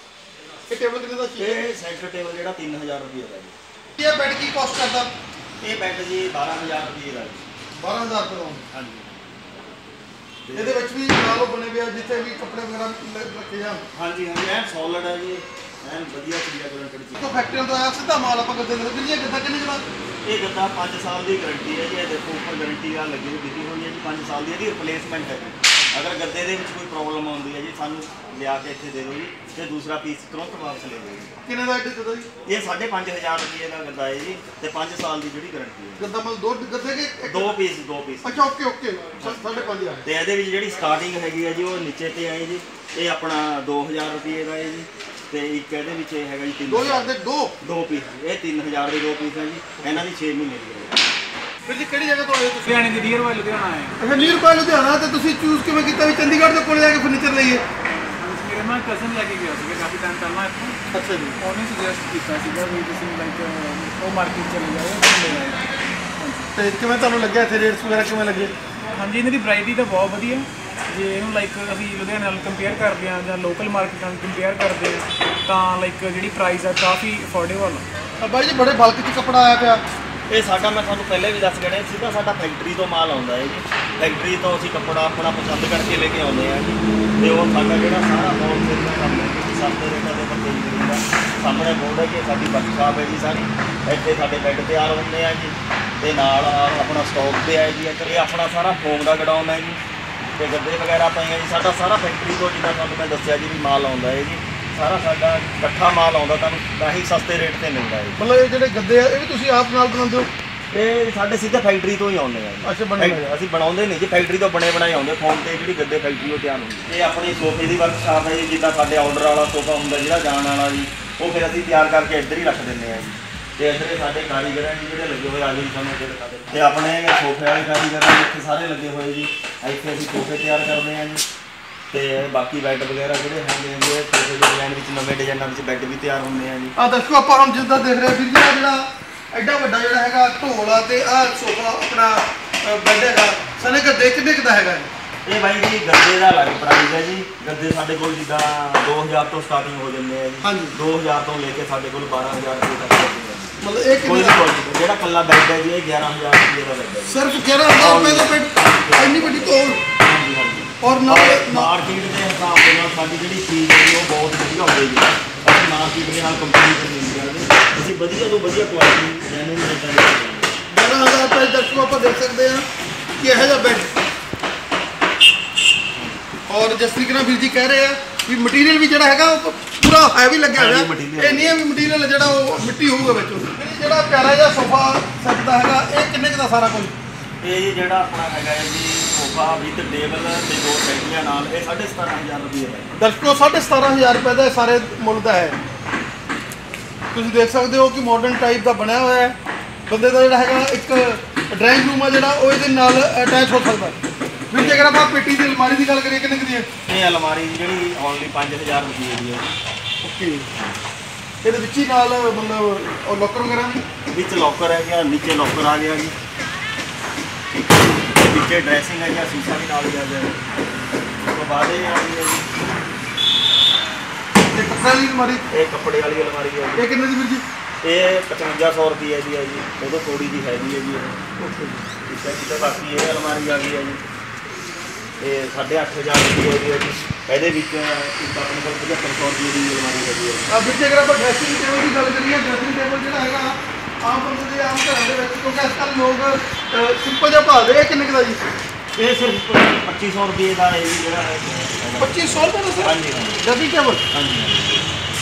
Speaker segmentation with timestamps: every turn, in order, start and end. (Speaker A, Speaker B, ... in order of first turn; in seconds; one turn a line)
Speaker A: 0.7-1.6
Speaker B: 1.4-3.5
Speaker A: 4.0-5.1
Speaker B: 5.6-7.5
Speaker A: 7.8-8.7
Speaker B: 8.7-9.2
Speaker B: 10.5-10.8
Speaker A: 10.5-13.8
Speaker B: 13.9-17.2
Speaker A: 17.2-19.9
Speaker B: 20.2-31.4
Speaker A: 31.4-32.3
Speaker B: 32.5-36.0
Speaker A: 36.0-37.6
Speaker B: 37.2-38.4
Speaker A: 38.2-40.0
Speaker B: 39.2-39.5
Speaker B: 40.0-47.1
Speaker A: 46.7-47.5
Speaker B: 47.6-51.0
Speaker A: 51.7-52.7
Speaker C: 52.6-54.0
Speaker A: 54.0-57.6
Speaker C: 57.9-60.8
Speaker A: 60.9-61.4
Speaker C: 61.4-66.5
Speaker A: 66.6-68.5
Speaker C: 68.9-77.9
Speaker A: 78.2-79.8
Speaker B: 80.3-99.8
Speaker B: 100.4-108.2
Speaker A: 108.2-110.3
Speaker B: 110.7-131.2
Speaker A: 112.6-113.2
Speaker B: 131.9-136.8
Speaker A: 136.8-144.9
Speaker B: 145.2-157.2
Speaker A: 150.4-150.8
Speaker A: 153.6-154.4
Speaker A: 157.1-159.8
Speaker B: 157.8-170.6
Speaker A: 160.8-161.7
Speaker A: 170.7-172.7
Speaker A: 173.2-173.9
Speaker A: 176.5-186.9
Speaker B: 180.5-181.6
Speaker B: 187.4-192.9
Speaker A: 193.0-195.6
Speaker A: 197.1-199.4
Speaker A: 199.9-204.0
Speaker A: 204.5-206.7
Speaker B: 204.6-205.1
Speaker B: 206.9-209.5
Speaker A: 210.0-210.5
Speaker A: 211.4-213.8
Speaker B: 214.1-216.2
Speaker B: 218.1-220.4
Speaker B: 221.2-222.5
Speaker A: 224.5-225.4
Speaker B: 225.5-226.9
Speaker A: 226.8-227.4
Speaker B: 227.8-231.2
Speaker A: 231.4-231.8
Speaker B: 232.0-234.0
Speaker B: 235.2-240.5
Speaker A: 240.5-248.4
Speaker B: 249.0-253.5
Speaker A: 252.0-254.0
Speaker B: 254.1-254.9